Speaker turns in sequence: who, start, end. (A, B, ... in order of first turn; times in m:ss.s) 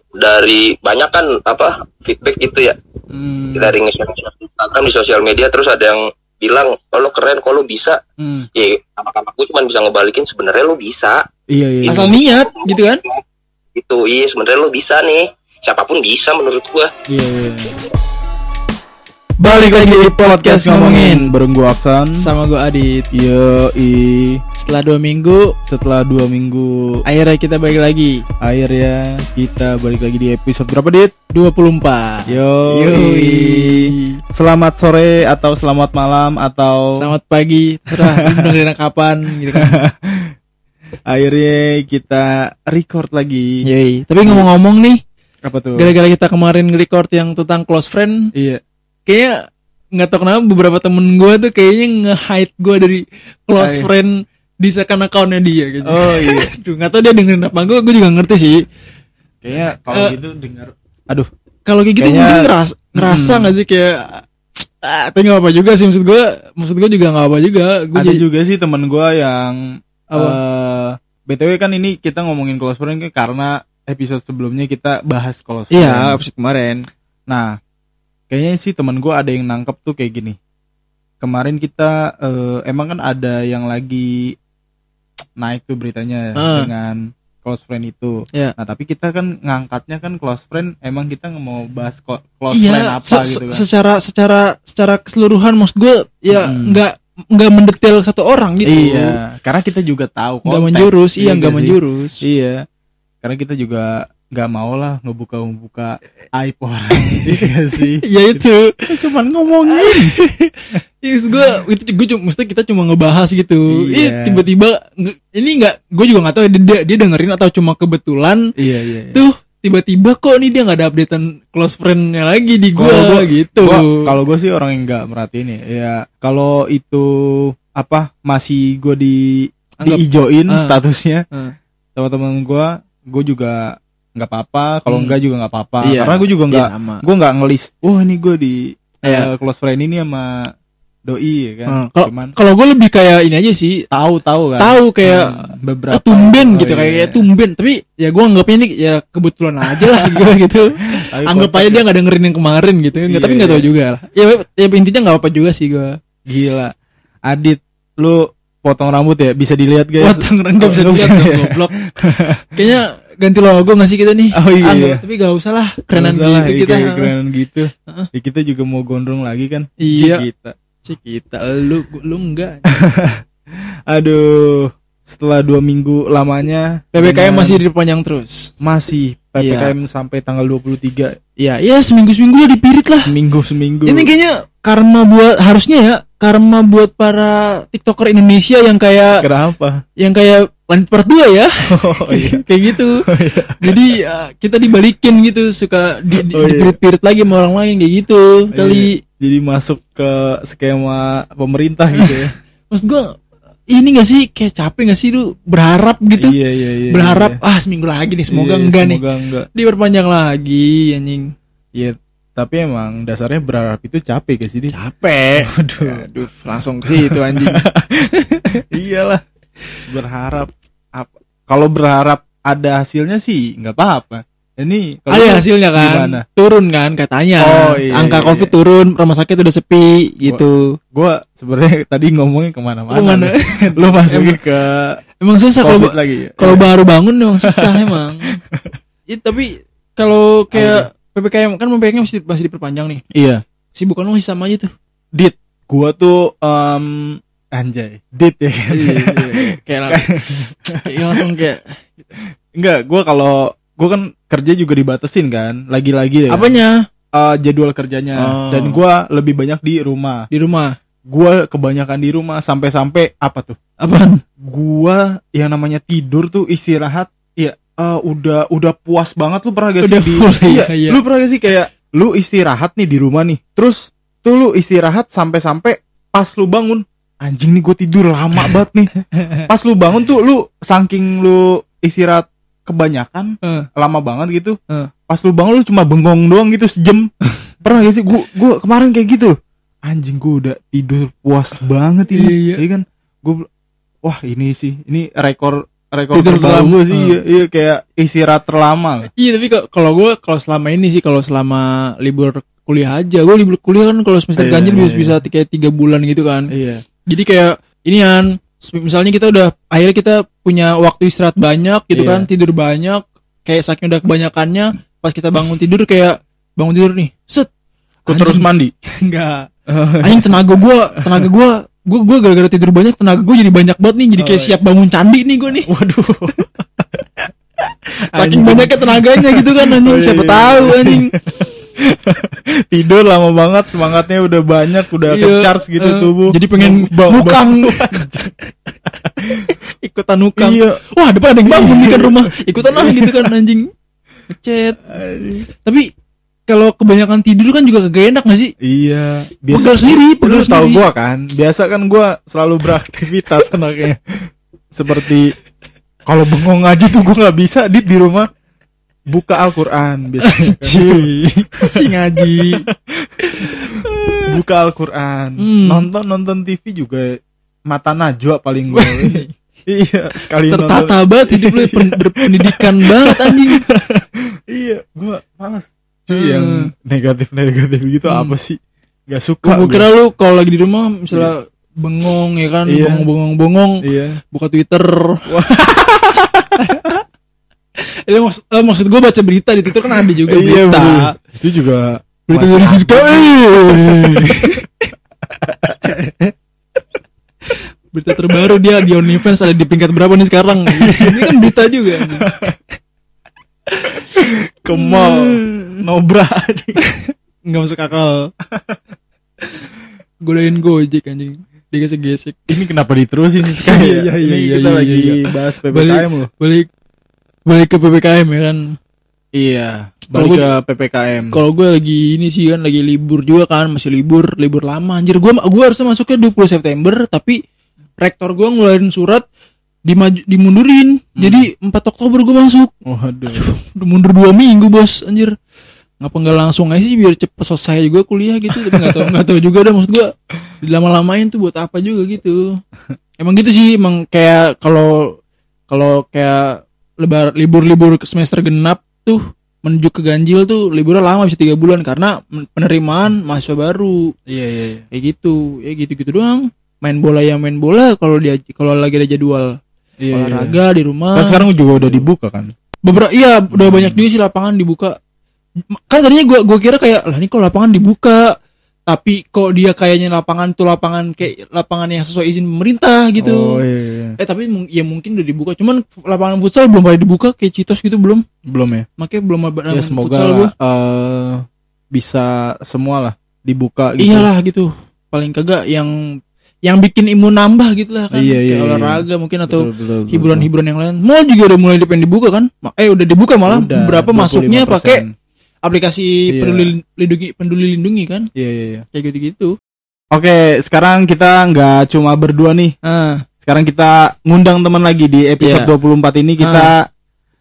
0:00.2-0:02.8 A
0:03.1-0:03.8 B
0:03.6-0:08.0 A
0:08.2-0:08.5 B
0:08.6-0:11.2 A
0:11.5-0:12.2 B
0:11.9-0:13.0 C
0:11.9-0:13.2 A
0:13.8-0:16.9 A
0:17.1-0:17.8 B
0:19.4-0:21.3 C
0:19.5-0:22.3 B
0:22.2-0:23.0 C
0:23.1-0:24.4 B
0:24.6-0:25.6 C
0:25.7-0:27.0 B
0:27.1-0:28.2 C
0:28.4-0:31.2 B
0:31.3-0:34.2 C
0:32.3-0:37.1 B
0:37.0-0:39.8 C
0:37.9-0:38.6 B
0:39.6-0:40.3 B
0:41.1-0:43.5 B
0:43.6-0:45.0 C
0:45.4-0:45.9 B
0:45.8-0:48.3 C
0:48.4-0:48.6 B
0:49.1-0:49.4 C
0:50.0-0:58.6 C
0:53.6-0:53.9 B
0:55.8-0:56.5 B
0:59.4-1:01.3 B
0:59.9-1:00.1 C
1:01.7-1:08.2 C
1:02.0-1:03.6 B
1:08.0-1:09.6 B
1:10.1-1:10.4 C
1:10.1-1:16.2 B
1:15.7-1:16.9 C
1:17.3-1:17.6 B
1:18.3-1:20.4 B
1:21.2-1:24.4 B
1:25.4-1:33.6 B
1:26.4-1:26.7 C
1:32.5-1:39.2 C
1:36.3-1:36.8 B
1:38.7-1:42.6 B
1:40.5-1:42.2 C
1:43.2-1:50.2 B
1:47.0-1:47.4 C
1:48.0-1:48.8 C
1:49.7-1:58.4 C
1:53.7-1:54.5 B
1:58.6-1:59.2 B
1:59.1-2:04.1 C
2:02.8-2:11.2 B
2:09.8-2:10.8 C
2:12.0-2:20.5 B
2:14.9-2:15.2 C
2:15.8-2:17.0 C
2:21.1-2:22.3 B
2:21.7-2:23.8 C
2:23.9-2:27.2 B
2:24.6-2:36.0 C
2:29.7-2:30.3 B
2:31.1-2:31.8 B
2:33.1-2:33.7 B
2:36.3-2:36.7 B
2:37.3-2:42.5 B
2:40.0-2:41.8 C
2:42.6-2:47.1 C
2:44.4-2:45.0 B
2:45.9-2:50.6 B
2:49.8-2:50.2 C
2:50.8-2:52.7 C
2:52.7-2:53.2 B
2:53.9-2:57.6 B
2:57.0-2:58.5 C
2:58.6-3:01.2 B
2:59.4-2:59.7 C
3:01.4-3:03.1 C
3:03.0-3:04.1 B
3:03.9-3:09.2 C
3:09.1-3:09.8 B
3:10.0-3:13.0 C
3:11.7-3:12.4 B
3:13.0-3:13.9 B
3:13.6-3:19.0 C
3:16.2-3:16.8 B
3:18.5-3:22.3 B
3:22.0-3:23.1 C
3:23.7-3:29.0 C
3:26.2-3:27.4 B
3:28.3-3:29.5 B
3:29.6-3:31.3 C
3:31.8-3:34.7 B
3:34.7-3:38.6 C
3:35.4-3:36.0 B
3:37.1-3:37.8 B
3:38.5-3:39.2 B
3:39.9-3:46.2 B
3:45.1-3:50.6 C
3:47.4-3:48.5 B
3:50.2-3:55.0 B
3:52.9-3:54.4 C
3:55.2-3:58.3 C
3:55.6-3:56.7 B
3:57.4-3:58.8 B
3:59.1-4:03.0 C
4:00.5-4:00.9 B
4:03.1-4:03.4 B
4:03.8-4:04.7 C
4:05.2-4:11.3 B
4:08.7-4:10.0 C
4:10.9-4:12.1 C
4:12.6-4:16.5 B
4:16.3-4:16.8 C
4:17.1-4:20.3 B
4:18.2-4:18.8 C
4:20.3-4:20.8 C
4:21.1-4:23.6 B
4:23.8-4:24.2 C
4:24.4-4:38.9 B
4:29.8-4:31.0 C
4:39.5-4:44.6 B
4:45.1-4:47.1 B
4:47.6-4:53.5 B
4:52.2-4:52.6 C
4:54.0-4:59.1 B
4:56.1-4:57.2 C
4:59.2-5:06.5 C
5:04.4-5:05.2 B
5:06.5-5:06.8 B
5:07.1-5:17.5 C
5:11.9-5:12.3 B
5:18.1-5:18.5 C
5:18.1-5:18.7 B
5:19.0-5:19.5 C
5:19.7-5:20.4 B
5:20.0-5:25.7 C
5:24.2-5:24.6 B
5:25.7-5:26.5 B
5:28.1-5:31.1 C
5:28.1-5:38.3 B
5:35.1-5:38.0 C
5:39.1-5:39.5 B
5:39.3-5:43.7 C
5:40.4-5:40.8 B
5:41.5-5:43.3 B
5:44.3-5:44.8 C
5:44.9-5:45.5 B
5:46.5-5:48.5 C
5:48.6-5:55.3 B
5:49.5-5:50.8 C
5:56.1-5:58.3 B
5:59.1-6:19.9 B
6:00.2-6:02.7 C
6:03.3-6:04.2 C
6:05.4-6:05.9 C
6:08.7-6:09.3 C
6:10.5-6:13.6 C
6:16.1-6:16.7 C
6:18.1-6:18.4 C
6:19.4-6:25.3 C
6:22.7-6:23.1 B
6:23.8-6:24.2 B
6:25.3-6:26.7 B
6:26.6-6:27.0 C
6:28.1-6:31.1 C
6:30.3-6:34.6 B
6:32.3-6:34.7 C
6:35.4-6:35.9 B
6:35.9-6:36.3 C
6:37.5-6:42.3 C
6:38.2-6:39.3 B
6:40.7-6:42.6 B
6:43.8-6:44.1 C
6:44.0-6:46.8 B
6:44.7-6:45.6 C
6:46.8-6:48.3 C
6:50.2-6:52.6 C
6:52.5-6:56.3 B
6:53.5-6:56.7 C
6:57.5-6:58.8 C
6:59.4-7:01.4 B
7:00.1-7:00.5 C
7:01.3-7:07.4 C
7:08.0-7:09.2 C
7:09.9-7:12.7 C
7:11.2-7:11.5 B
7:12.8-7:13.5 B
7:13.3-7:15.4 C
7:16.0-7:22.6 C
7:18.5-7:19.1 B
7:23.2-7:25.2 C
7:25.7-7:34.1 C
7:34.3-7:34.8 B
7:34.9-7:39.6 C
7:40.0-7:40.6 B
7:40.1-7:42.0 C
7:41.2-7:42.6 B
7:42.8-7:45.0 C
7:43.5-7:44.0 B
7:45.7-7:48.4 C
7:48.9-7:53.6 C
7:53.2-7:54.2 B
7:54.2-7:58.2 C
7:58.5-7:58.9 B
7:59.0-8:00.5 C
7:59.7-8:04.3 B
8:04.0-8:05.9 C
8:06.6-8:15.0 C
8:08.1-8:10.5 B
8:13.5-8:15.1 B
8:15.6-8:18.3 C
8:16.3-8:16.7 B
8:18.4-8:18.9 B
8:18.9-8:19.6 C
8:20.1-8:22.8 B
8:22.8-8:23.2 C
8:23.4-8:26.9 B
8:25.4-8:25.7 C
8:26.4-8:26.7 C